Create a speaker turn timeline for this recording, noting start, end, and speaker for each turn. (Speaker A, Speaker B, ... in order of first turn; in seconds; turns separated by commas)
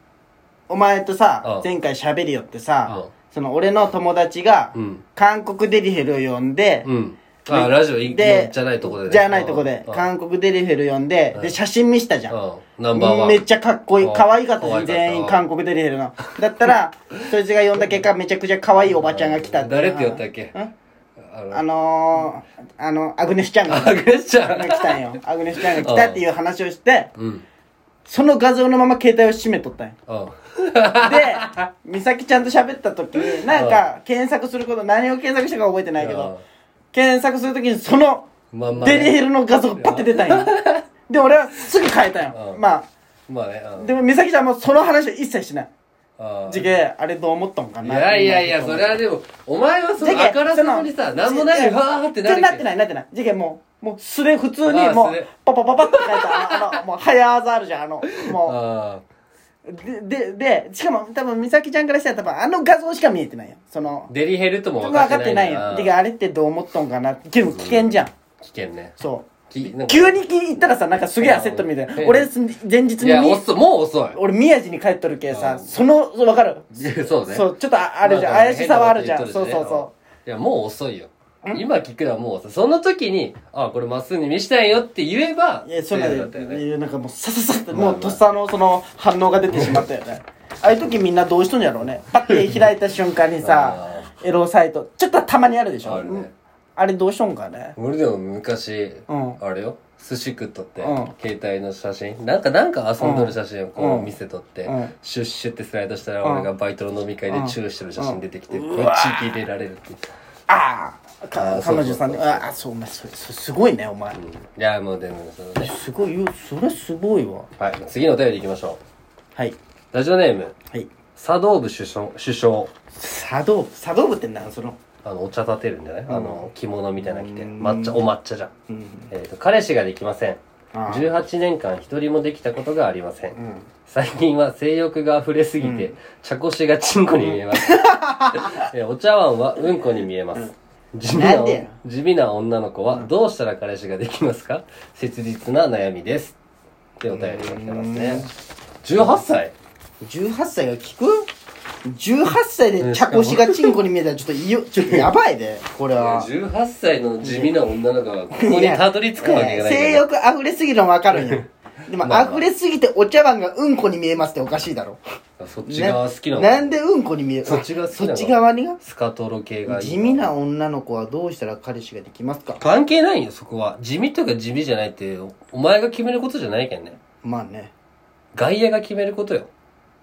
Speaker A: 0.7-6.9, Speaker B: 2.9-3.1, Speaker B: 4.8-5.0, Speaker B: 6.8-10.1, Speaker A: 7.5-12.4, Speaker B: 12.3-13.4, Speaker A: 12.9-20.7, Speaker B: 14.0-15.4, Speaker B: 17.8-18.1, Speaker B: 18.9-20.5, Speaker B: 21.2-21.6, Speaker A: 21.5-27.1, Speaker B: 23.7-26.2, Speaker B: 27.2-27.4, Speaker A: 28.1-30.0, Speaker B: 30.1-31.7, Speaker A: 30.9-36.3, Speaker B: 33.3-33.8, Speaker B: 36.0-36.4, Speaker A: 36.9-42.9, Speaker B: 38.5-39.2, Speaker B: 39.8-40.8, Speaker B: 42.3-42.6, Speaker B: 43.3-43.9, Speaker A: 43.8-45.7, Speaker B: 46.2-46.8, Speaker A: 46.5-49.0, Speaker B: 47.8-52.6, Speaker A: 50.0-58.6, Speaker B: 54.6-55.3, Speaker B: 55.8-56.8, Speaker B: 58.2-59.0, Speaker A: 59.7-64.1, Speaker B: 64.1-66.0, Speaker A: 64.8-68.1, Speaker B: 67.4-69.0, Speaker A: 69.0-73.4, Speaker B: 69.5-70.2, Speaker B: 71.2-72.3, Speaker B: 73.0-74.2, Speaker A: 74.1-79.9, Speaker B: 75.3-75.7, Speaker B: 76.8-86.6, Speaker A: 85.7-97.8, Speaker B: 87.7-88.2, Speaker B: 89.5-89.8, Speaker B: 92.4-92.6, Speaker B: 93.4-94.1, Speaker B: 95.8-96.3, Speaker B: 97.8-110.0, Speaker A: 99.1-99.4, Speaker A: 100.8-101.1, Speaker A: 103.0-104.1, Speaker A: 104.7-104.9, Speaker A: 106.2-106.5, Speaker A: 107.3-109.4, Speaker A: 110.5-114.2, Speaker B: 111.4-112.5, Speaker B: 114.1-115.8, Speaker A: 115.6-117.5, Speaker B: 117.6-118.8, Speaker B: 119.9-120.5, Speaker B: 121.2-122.7, Speaker A: 123.0-124.8, Speaker B: 125.0-128.5, Speaker A: 126.1-126.5, Speaker A: 127.0-128.0, Speaker A: 128.7-129.1, Speaker B: 129.1-146.3, Speaker A: 130.7-131.1, Speaker A: 133.4-133.7, Speaker A: 135.6-135.9, Speaker A: 137.3-138.7, Speaker A: 141.1-141.8, Speaker B: 147.0-148.3, Speaker A: 147.1-148.3, Speaker B: 148.8-149.5, Speaker A: 150.0-151.3, Speaker A: 151.8-156.3, Speaker B: 152.8-153.8, Speaker B: 156.0-160.1, Speaker A: 157.2-157.5, Speaker A: 158.3-165.0, Speaker B: 161.2-161.4, Speaker B: 162.0-162.4, Speaker B: 165.4-166.7, Speaker A: 165.7-168.8, Speaker B: 167.4-170.3, Speaker A: 169.7-172.6, Speaker B: 172.6-177.0, Speaker A: 177.2-177.7, Speaker B: 178.3-179.5